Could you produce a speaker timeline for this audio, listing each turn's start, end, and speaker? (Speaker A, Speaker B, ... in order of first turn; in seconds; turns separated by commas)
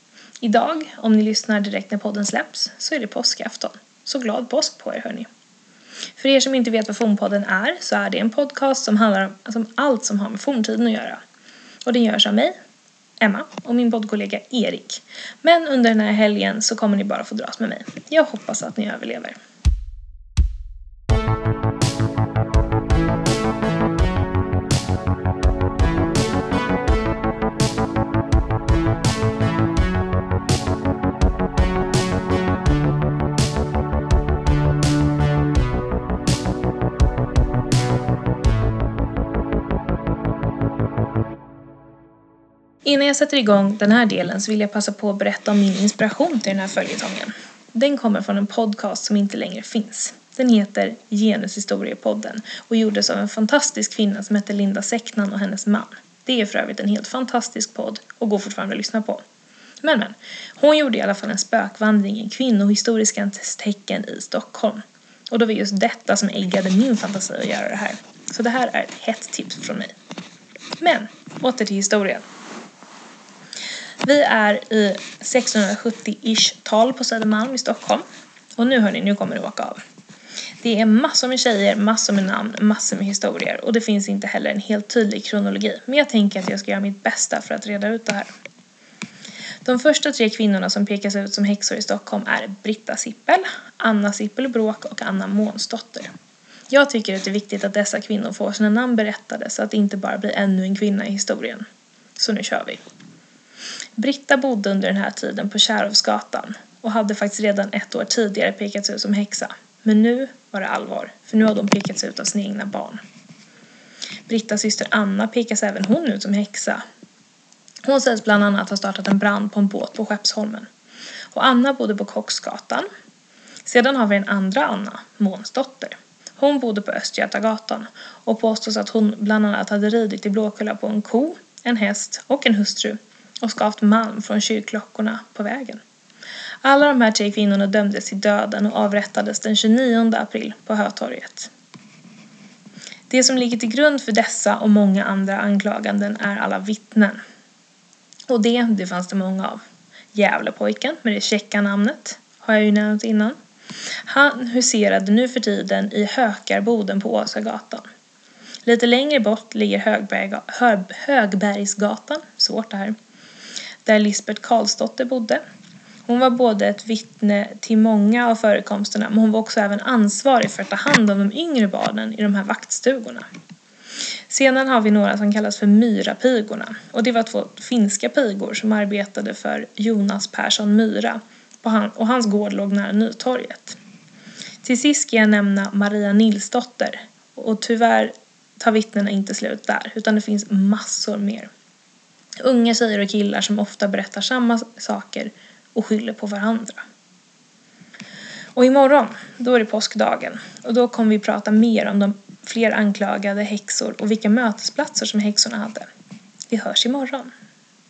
Speaker A: 0.4-5.3, Speaker A: 6.2-11.2, Speaker A: 11.8-12.5, Speaker A: 13.2-19.4, Speaker A: 42.8-59.2, Speaker A: 59.8-69.9, Speaker A: 70.8-72.2, Speaker A: 74.0-78.0, Speaker A: 78.6-79.8, Speaker A: 80.6-88.3, Speaker A: 89.6-96.1, Speaker A: 96.7-101.6, Speaker A: 102.2-102.8, Speaker A: 104.0-113.0, Speaker A: 114.3-116.8, Speaker A: 117.8-120.7, Speaker A: 121.3-122.9, Speaker A: 123.6-135.8, Speaker A: 136.6-141.5, Speaker A: 143.1-147.2, Speaker A: 148.3-149.6, Speaker A: 150.1-153.3, Speaker A: 154.0-157.8, Speaker A: 158.6-162.9, Speaker A: 163.8-165.4, Speaker A: 166.1-173.2, Speaker A: 174.3-183.8, Speaker A: 184.6-191.5, Speaker A: 192.4-196.8, Speaker A: 198.5-205.9, Speaker A: 206.5-207.3